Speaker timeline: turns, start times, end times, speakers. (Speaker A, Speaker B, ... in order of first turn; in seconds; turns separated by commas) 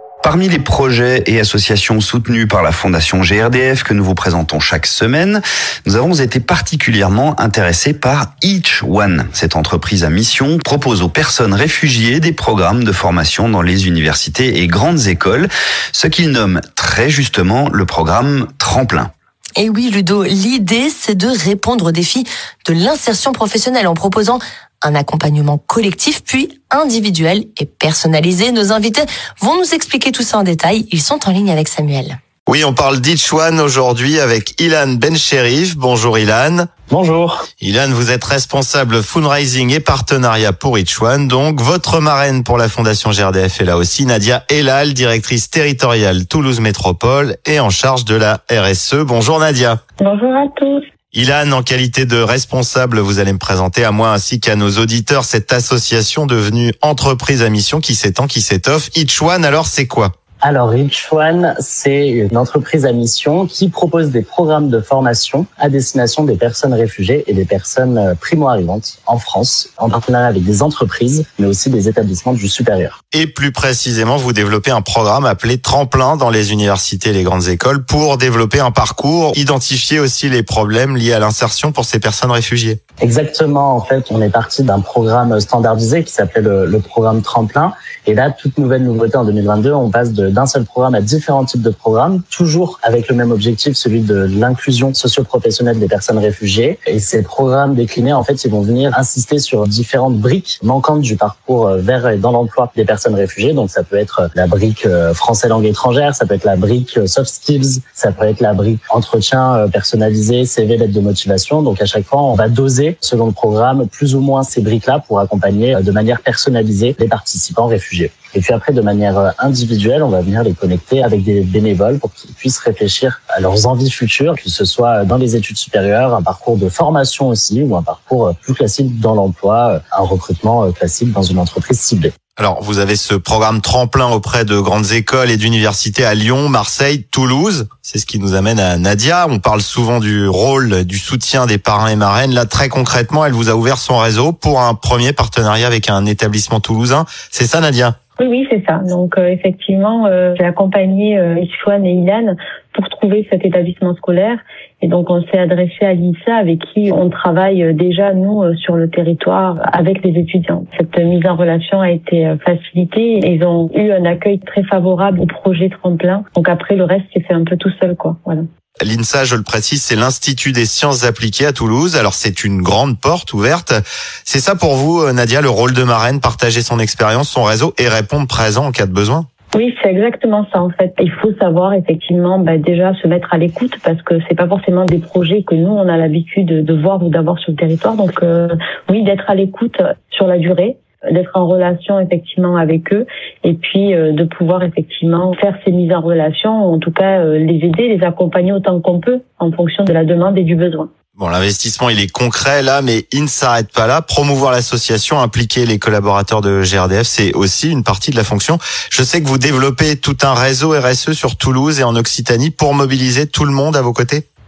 Speaker A: 0.2-19.1, Speaker B: 19.6-32.1, Speaker C: 32.5-36.7, Speaker D: 36.9-37.5, Speaker C: 37.6-49.8, Speaker E: 50.0-50.8, Speaker C: 51.1-60.1, Speaker D: 60.4-73.0, Speaker C: 73.1-82.8, Speaker D: 83.0-132.1, Speaker C: 132.4-147.9, Speaker E: 148.2-168.4, Speaker C: 168.8-179.2, Speaker E: 179.5-200.9, Speaker C: 201.2-214.2